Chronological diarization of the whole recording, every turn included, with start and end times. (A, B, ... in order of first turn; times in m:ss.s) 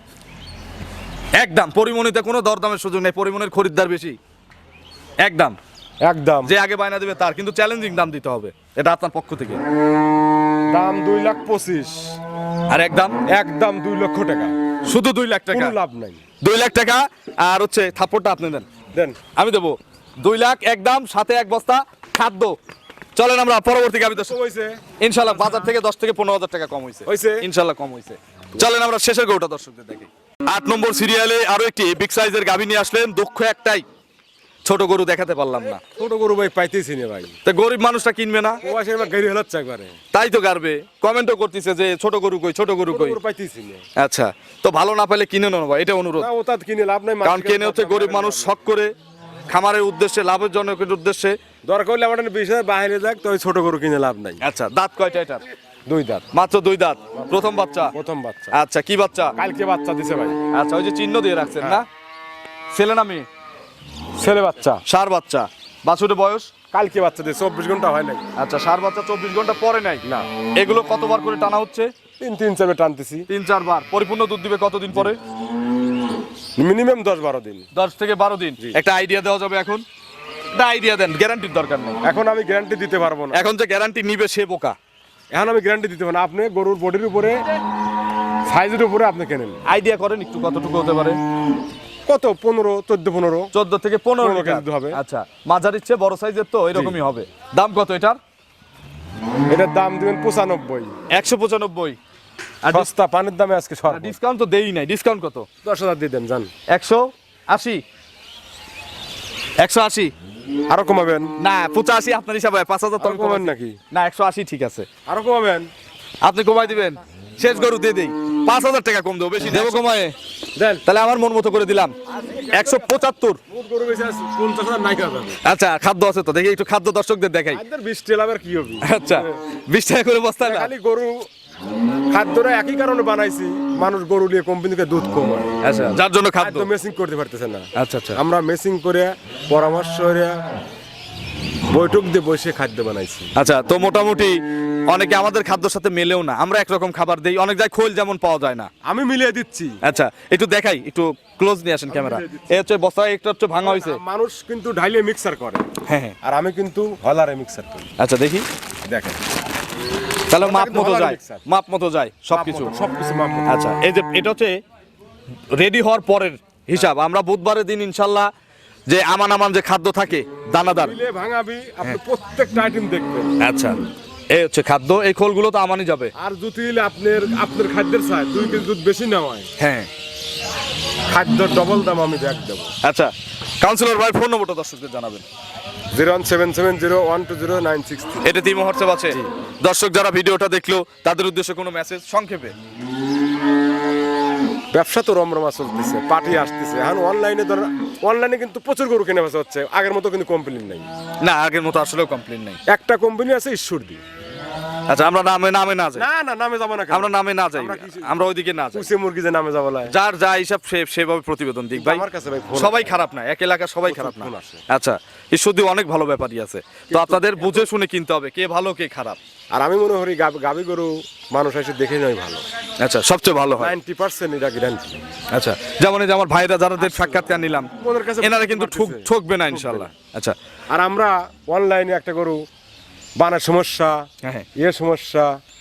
0:01.4-0:04.2 A
0:05.2-0:05.6 A
0:06.0-0:06.5 B
0:06.4-0:09.6 A
0:10.7-0:12.2 B
0:12.7-0:13.2 A
0:13.3-0:14.5 B
0:14.9-0:15.8 A
0:15.5-0:16.2 B
0:16.4-0:18.7 A
0:19.0-0:19.2 B
0:19.4-0:22.6 A
0:23.2-0:24.4 A
0:24.2-0:24.8 B
0:25.0-0:33.9 A
0:27.1-0:27.5 B
0:34.6-0:35.8 A
0:36.0-0:37.4 B
0:37.4-0:38.6 A
0:38.6-0:40.0 B
0:40.1-0:43.2 A
0:42.9-0:43.8 B
0:44.0-0:46.3 A
0:46.2-0:48.6 B
0:47.2-0:48.9 A
0:49.5-0:51.4 A
0:51.7-0:54.4 B
0:54.4-0:55.4 A
0:55.9-0:56.3 B
0:56.3-0:58.0 A
0:57.2-0:58.6 B
0:58.5-0:59.4 A
0:59.4-1:00.4 B
1:00.5-1:01.9 A
1:02.7-1:03.3 A
1:04.2-1:04.8 B
1:04.9-1:06.5 A
1:06.7-1:08.2 B
1:08.4-1:10.0 A
1:10.6-1:11.9 A
1:12.2-1:13.3 B
1:13.3-1:15.2 A
1:16.6-1:17.7 B
1:17.7-1:19.8 A
1:20.6-1:22.0 A
1:22.0-1:23.4 B
1:23.3-1:24.8 A
1:25.3-1:27.4 B
1:28.5-1:29.6 B
1:29.7-1:31.2 A
1:32.1-1:33.5 B
1:33.5-1:38.2 A
1:34.2-1:35.0 B
1:36.7-1:37.0 B
1:39.5-1:41.0 B
1:41.1-1:42.0 A
1:42.6-1:42.9 A
1:42.7-1:44.2 B
1:43.9-1:45.5 A
1:45.6-1:46.5 B
1:46.7-1:47.8 A
1:49.6-1:50.1 A
1:50.7-1:51.3 B
1:51.4-1:54.9 A
1:53.0-1:53.8 B
1:55.1-1:55.7 B
1:56.2-2:00.1 A
1:59.5-1:59.8 B
2:00.6-2:00.8 B
2:00.8-2:02.0 A
2:02.1-2:05.4 B
2:02.5-2:03.4 A
2:05.4-2:07.6 A
2:07.5-2:09.3 B
2:08.8-2:10.7 A
2:10.4-2:11.3 B
2:12.1-2:15.5 B
2:15.6-2:16.7 A
2:16.4-2:20.4 B
2:17.8-2:18.2 A
2:21.7-2:23.3 B
2:23.4-2:24.4 A
2:24.9-2:28.7 A
2:28.8-2:29.8 B
2:29.8-2:34.0 A
2:31.9-2:32.6 B
2:33.6-2:35.7 B
2:35.9-2:36.2 A
2:36.2-2:37.9 B
2:38.0-2:38.4 A
2:38.9-2:39.2 B
2:40.3-2:42.7 A
2:40.3-2:41.4 B
2:42.3-2:43.5 B
2:43.5-2:44.6 A
2:45.6-2:48.3 A
2:48.9-2:51.0 A
2:50.8-2:53.3 B
2:53.4-2:53.8 A
2:54.3-2:56.1 A
2:56.2-2:59.5 B
2:59.6-2:59.9 A
3:01.1-3:02.7 B
3:02.8-3:05.2 A
3:05.9-3:08.2 B
3:08.2-3:12.5 A
3:14.7-3:20.9 B
3:21.2-3:22.6 A
3:22.7-3:24.0 B
3:24.9-3:26.1 A
3:26.0-3:28.2 B
3:26.9-3:28.9 A
3:28.7-3:29.9 B
3:29.9-3:39.2 A
3:31.8-3:33.0 B
3:33.9-3:34.6 B
3:36.9-3:37.6 B
3:39.5-3:42.4 B
3:42.8-3:43.7 A
3:43.6-3:45.0 B
3:45.3-3:47.7 A
3:46.8-3:47.2 B
3:47.8-3:49.9 B
3:48.2-3:50.4 A
3:50.7-3:52.4 B
3:53.2-3:55.4 B